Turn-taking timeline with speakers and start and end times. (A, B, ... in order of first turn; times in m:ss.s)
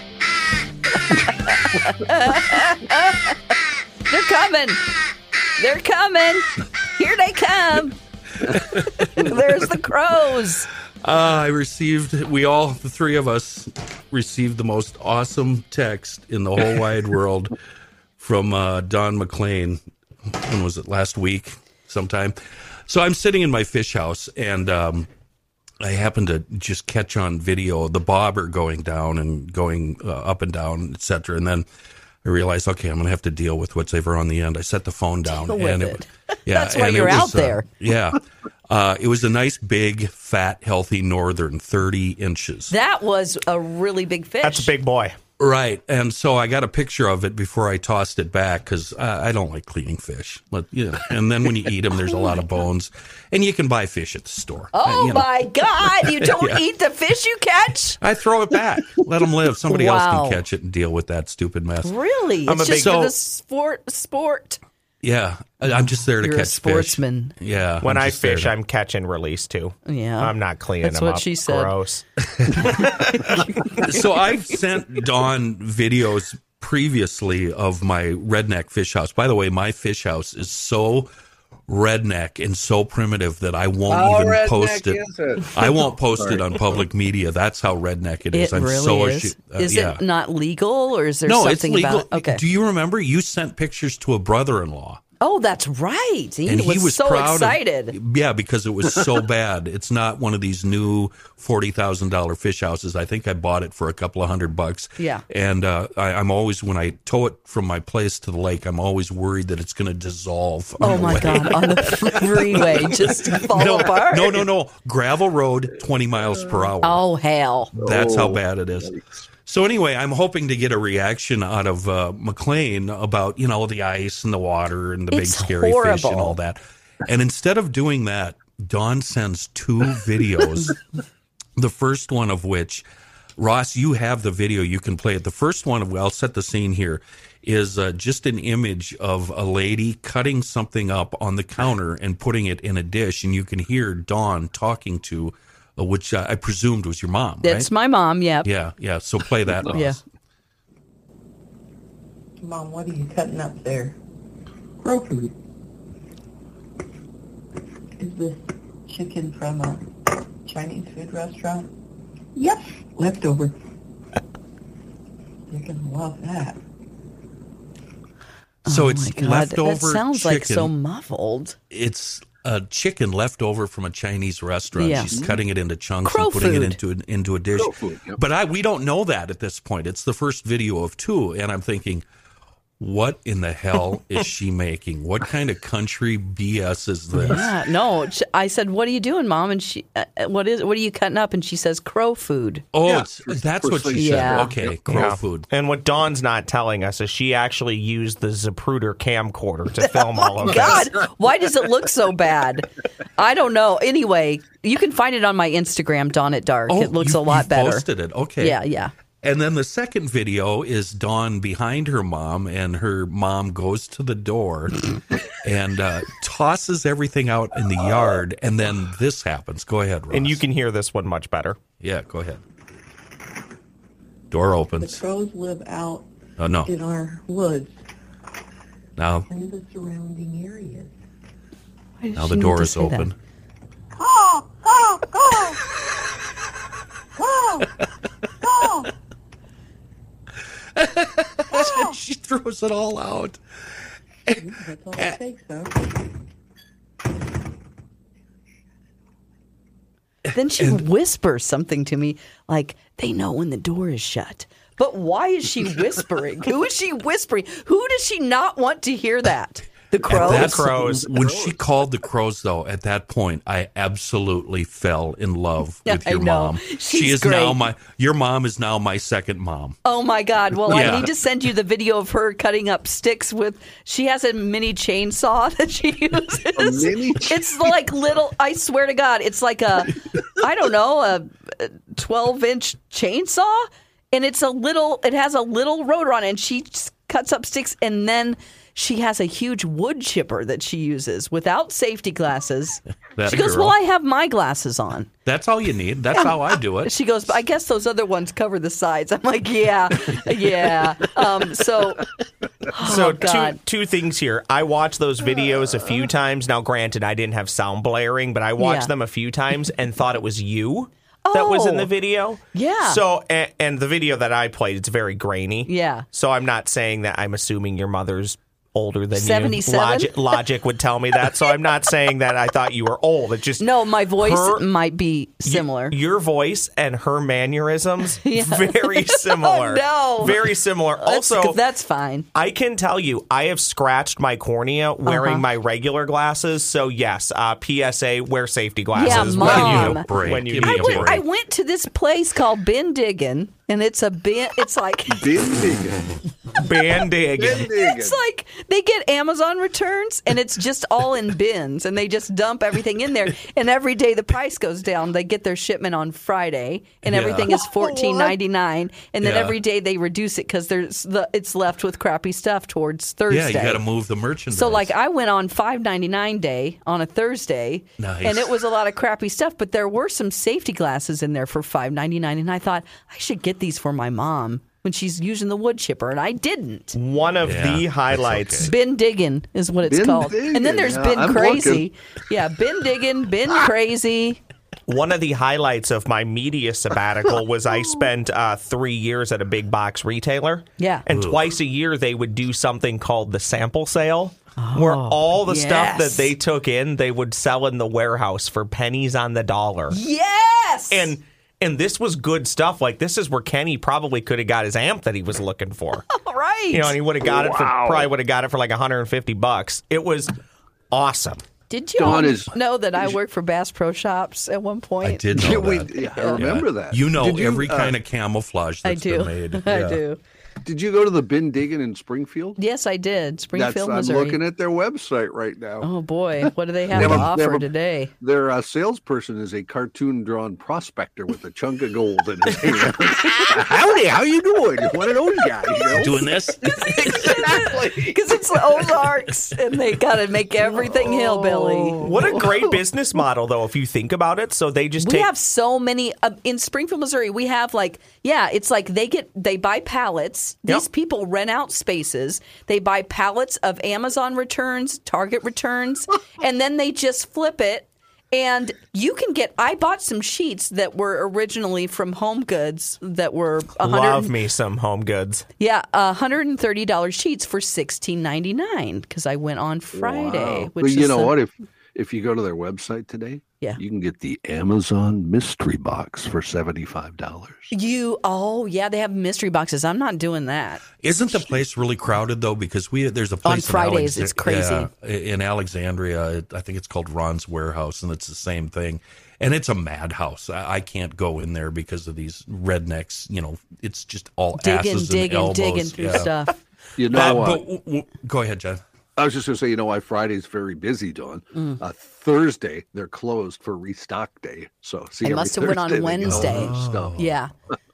0:01.0-0:03.5 A
0:04.1-0:04.8 A
0:05.6-0:08.0 A
0:08.4-0:09.3 B
0:08.5-0:10.7 A
0:11.0-0:17.5 B
0:18.2-0:22.4 B
0:22.9-0:25.1 B
0:25.8-0:31.6 B
0:32.2-0:42.7 B
0:35.3-0:37.6 A
0:42.7-0:44.7 A
0:44.4-0:45.2 C
0:45.4-0:56.6 B
0:52.1-0:52.4 A
0:54.7-0:58.0 A
0:58.0-1:01.9 B
0:59.7-1:00.4 A
1:01.8-1:04.6 A
1:02.5-1:03.1 C
1:02.6-1:03.1 B
1:05.0-1:08.5 B
1:06.2-1:07.3 A
1:07.8-1:12.8 C
1:09.8-1:11.7 A
1:12.4-1:12.9 B
1:12.6-1:13.9 A
1:13.7-1:21.1 B
1:21.7-1:25.0 B
1:23.9-1:26.8 D
1:25.5-1:30.0 B
1:28.3-1:32.4 A
1:31.2-1:35.0 B
1:35.2-1:37.9 A
1:36.4-1:57.0 B
1:45.0-1:45.2 A
1:50.8-1:54.5 A
1:50.9-1:51.6 D
1:52.6-1:53.1 D
1:56.8-1:57.7 A
1:57.7-1:58.9 B
1:57.8-1:59.2 D
1:59.4-2:10.8 B
2:05.1-2:06.4 A
2:11.6-2:12.8 B
2:13.4-2:27.7 B
2:27.4-2:28.5 A
2:28.4-2:30.0 B
2:29.7-2:30.0 A
2:32.4-2:34.0 E
2:34.8-2:35.3 E
2:38.0-2:39.9 E
2:40.4-2:41.7 E
2:42.3-2:43.6 E
2:45.5-2:46.6 E
2:48.6-2:50.7 B
2:48.6-2:51.6 A
2:51.7-3:02.0 B
2:54.8-2:55.2 A
2:55.1-2:55.4 D
2:56.0-2:56.8 A
2:57.6-2:58.2 D
3:02.8-3:07.5 B
3:07.2-3:12.6 A
3:12.7-3:15.5 B
3:12.8-3:15.2 D
3:13.9-3:14.5 A
3:14.9-3:20.9 C
3:20.4-3:27.8 A
3:26.7-3:28.6 B
3:28.4-3:28.9 A
3:29.2-3:40.4 B
3:40.1-3:41.6 C
3:41.8-3:42.4 B
3:44.3-3:45.0 B
3:44.8-3:46.1 E
3:46.4-3:46.7 B
3:46.6-3:47.7 E
3:49.0-3:49.3 B
3:49.3-3:50.9 E
3:52.0-3:53.1 A
3:52.2-3:53.2 B
3:53.9-3:55.7 E
3:57.2-3:57.7 E
3:58.3-3:58.9 E
4:00.8-4:03.4 B
4:01.5-4:01.9 E
4:04.3-4:06.1 E
4:10.3-4:20.6 A
4:20.1-4:21.0 C
4:20.1-4:29.8 B
4:20.7-4:21.6 D
4:25.8-4:27.6 A
4:29.8-4:55.1 A
4:30.7-4:31.1 B
4:36.6-4:37.5 D
4:53.2-4:53.7 B
4:55.2-4:56.9 B
4:56.1-5:02.0 A
5:02.7-5:03.6 A
5:02.8-5:24.6 C
5:08.6-5:08.9 A
5:11.2-5:11.9 A
5:12.5-5:13.0 A
5:15.6-5:16.0 A
5:19.1-5:20.4 A
5:23.6-5:26.0 A
5:25.4-5:31.6 C
5:28.2-5:32.3 A
5:32.3-5:41.2 C
5:35.0-5:35.4 A
5:38.9-5:45.4 A
5:39.0-5:41.2 B
5:45.1-5:46.2 D
5:46.6-5:47.7 C
5:47.3-5:48.2 D
5:47.6-6:03.8 A
5:57.0-5:57.6 B
5:59.2-5:59.6 B
6:03.3-6:04.9 B
6:04.5-6:17.0 A
6:08.0-6:08.6 B
6:16.9-6:18.7 C
6:17.4-6:18.7 B
6:18.6-6:24.4 A
6:19.9-6:21.8 D
6:24.9-6:40.0 C
6:30.8-6:31.0 A
6:31.1-6:31.4 B
6:34.6-6:36.3 A
6:39.9-6:41.1 A
6:40.9-6:46.1 C
6:46.1-6:47.0 A
6:46.7-6:50.3 C
6:47.2-6:48.1 D
6:50.9-6:51.4 C
6:51.7-6:56.5 A
6:52.0-6:52.5 D
6:55.0-7:00.0 B
6:55.3-6:58.0 D
6:58.8-7:00.2 A
7:00.6-7:02.6 D
7:02.6-7:04.4 A
7:03.5-7:05.9 D
7:05.8-7:08.1 A
7:06.9-7:07.7 D
7:06.9-7:07.3 B
7:08.2-7:18.1 D
7:15.9-7:17.6 B
7:16.6-7:22.8 A
7:21.9-7:25.3 C
7:25.0-7:44.3 A
7:43.8-7:45.5 C
7:45.6-7:51.3 A
7:49.9-7:57.7 D
7:57.7-8:00.8 A
8:01.0-8:16.3 B
8:03.4-8:04.9 A
8:14.6-8:16.6 A
8:17.0-8:17.6 D
8:17.1-8:18.8 B
8:17.1-8:17.5 C
8:19.2-8:27.1 D
8:21.5-8:21.8 A
8:25.2-8:27.5 A
8:26.2-8:27.3 B